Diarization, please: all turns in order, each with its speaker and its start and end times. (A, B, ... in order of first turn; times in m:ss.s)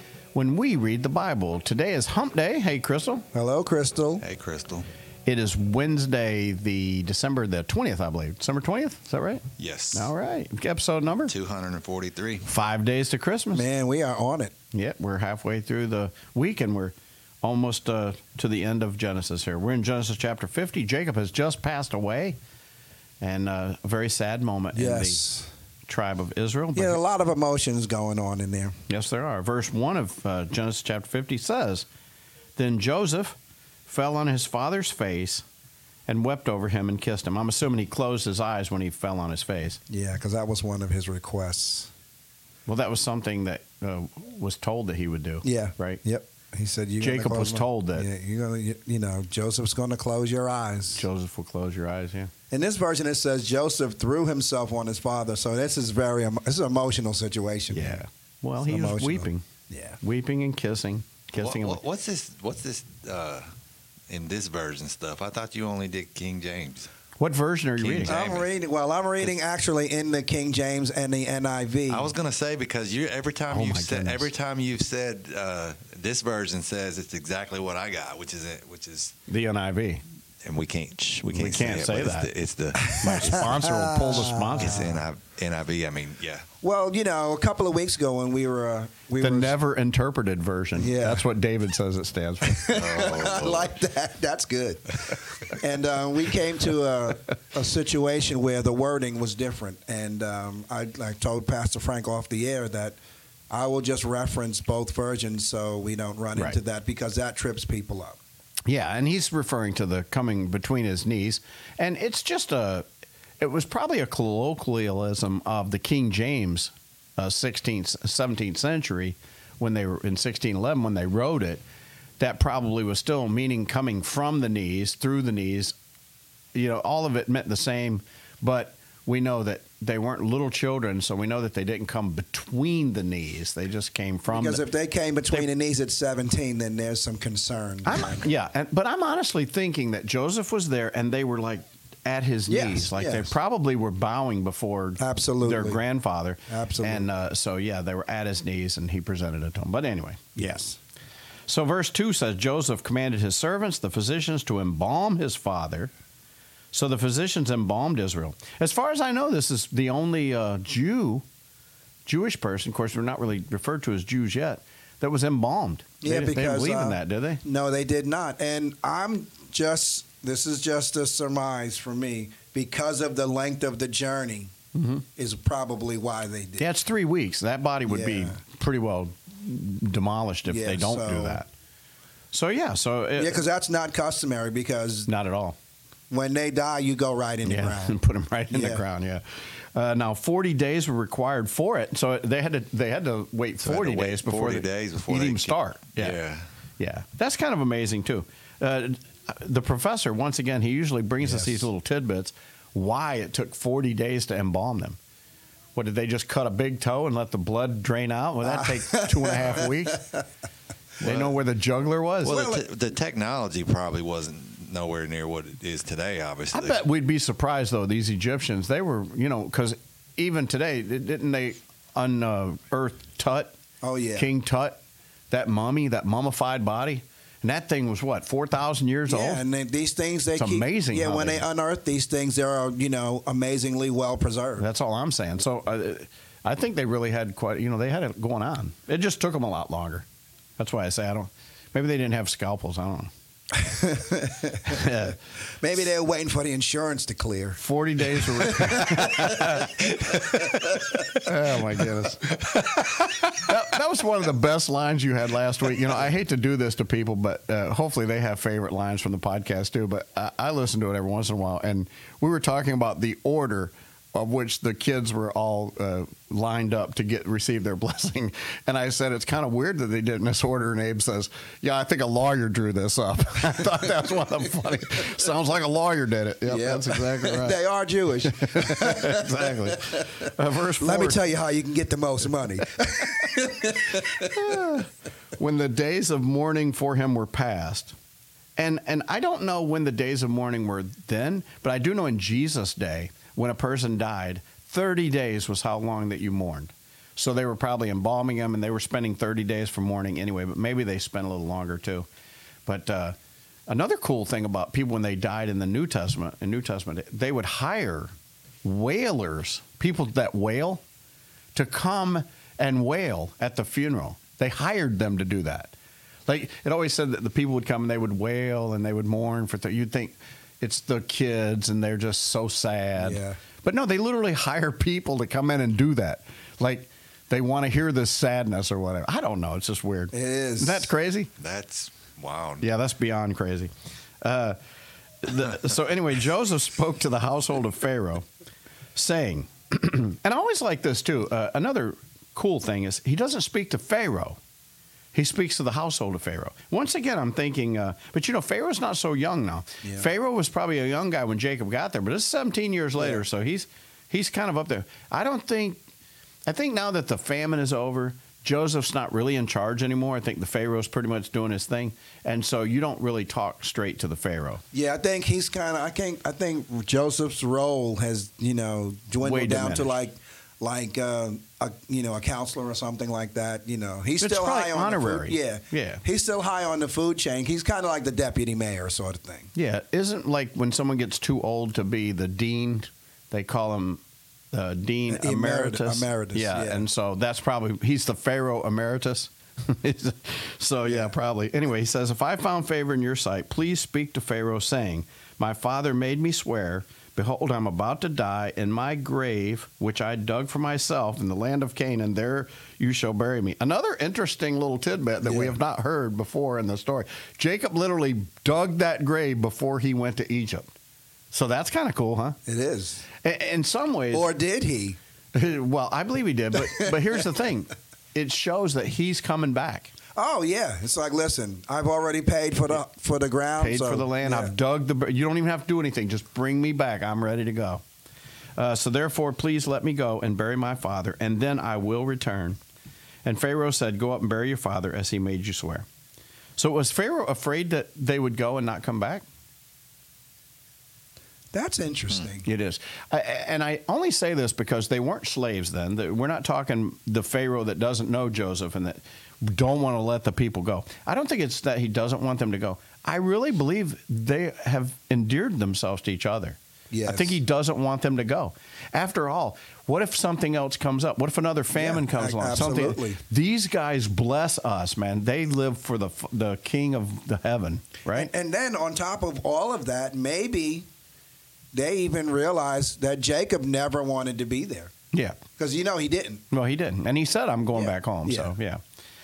0:00.3-0:03.3 A
0:03.3-0:04.2 B
0:04.2-0:04.9 C
0:05.3-0:11.4 A
0:09.6-0:10.1 C
0:11.3-0:12.4 C
0:12.4-0:13.7 A
0:13.5-0:14.5 B
0:14.7-0:22.4 A
0:23.2-0:25.2 A
0:24.7-0:25.5 B
0:25.9-0:27.0 A
0:26.8-0:28.8 B
0:28.9-0:31.9 A
0:32.6-0:33.4 A
0:33.9-0:35.4 A
0:36.1-0:39.8 A
0:39.9-0:41.9 B
0:42.7-0:46.0 A
0:45.4-0:51.0 B
0:47.0-0:48.1 A
0:51.0-0:52.3 A
0:52.5-0:58.0 B
0:57.7-0:59.5 A
0:58.6-1:00.0 B
1:00.0-1:01.8 A
1:01.4-1:03.5 C
1:04.1-1:06.9 C
1:07.2-1:08.2 A
1:07.8-1:08.5 C
1:08.0-1:12.1 B
1:11.9-1:19.1 C
1:13.5-1:14.3 A
1:19.3-1:20.0 A
1:20.4-1:23.6 C
1:21.3-1:22.3 A
1:23.0-1:25.0 B
1:23.0-1:25.0 A
1:24.6-1:26.5 C
1:26.6-1:29.6 B
1:29.2-1:32.7 A
1:30.8-1:31.2 B
1:32.4-1:43.0 B
1:32.7-1:33.7 C
1:43.5-1:48.2 B
1:48.7-1:52.9 A
1:53.4-2:01.6 A
2:02.2-2:05.7 A
2:06.6-2:14.6 A
2:14.3-2:18.3 B
2:17.8-2:30.8 A
2:22.5-2:23.3 B
2:25.0-2:25.8 B
2:26.5-2:27.1 B
2:30.4-2:30.7 B
2:31.5-2:35.9 A
2:36.7-2:41.2 A
2:42.1-2:47.4 A
2:46.0-2:54.5 B
2:54.7-2:55.0 A
2:55.2-2:56.7 B
2:56.6-3:01.5 A
2:57.9-2:58.4 B
3:00.5-3:01.4 B
3:02.3-3:03.4 A
3:03.2-3:05.1 B
3:05.1-3:05.6 A
3:06.1-3:08.0 B
3:07.4-3:16.2 A
3:08.5-3:08.8 B
3:13.6-3:16.4 C
3:16.8-3:25.0 A
3:21.2-3:21.7 B
3:25.8-3:30.0 A
3:28.4-3:30.2 B
3:31.0-3:32.4 A
3:31.0-3:31.4 B
3:32.2-3:36.8 C
3:32.3-3:32.7 B
3:36.5-3:43.5 A
3:43.8-3:44.3 B
3:44.2-3:44.8 A
3:45.3-3:49.4 A
3:49.1-3:54.6 B
3:50.4-3:51.4 A
3:54.6-4:00.0 A
4:00.6-4:03.1 A
4:03.5-4:04.9 B
4:04.7-4:05.2 A
4:05.6-4:07.6 B
4:07.6-4:10.4 A
4:08.1-4:09.7 B
4:09.9-4:11.2 C
4:10.9-4:37.6 A
4:36.5-4:40.0 B
4:38.3-4:41.2 A
4:40.8-4:44.3 B
4:44.2-4:47.9 A
4:48.6-5:02.1 A
5:02.7-5:03.2 A
5:03.7-5:08.1 A
5:08.6-5:10.8 A
5:11.6-5:15.7 A
5:16.3-5:31.3 A
5:23.0-5:23.4 B
5:30.1-5:30.9 B
5:31.4-5:32.6 C
5:32.6-5:33.7 A
5:34.2-5:34.6 A
5:35.2-5:38.2 A
5:39.0-5:44.4 A
5:45.1-5:55.8 A
5:49.8-5:50.1 B
5:53.0-5:53.2 B
5:56.5-6:04.6 A
6:04.7-6:19.5 B
6:09.2-6:10.0 A
6:14.2-6:16.0 A
6:19.6-6:50.7 A
6:25.1-6:26.9 B
6:30.9-6:31.1 B
6:45.2-6:45.6 B
6:51.3-6:52.4 A
6:52.5-6:53.0 B
6:53.2-6:54.3 A
6:54.1-6:55.0 B
6:55.3-6:59.9 A
7:00.2-7:04.5 B
7:03.6-7:07.8 A
7:08.6-7:12.6 A
7:13.2-7:15.9 A
7:16.6-7:19.2 A
7:21.5-7:22.5 B
7:22.4-7:48.3 A
7:36.9-7:37.4 B
7:41.7-7:43.2 B
7:48.1-7:50.8 B
7:51.7-7:54.9 B
7:55.1-7:55.4 A
7:55.6-7:56.4 B
7:56.5-7:58.8 A
7:57.7-7:58.5 B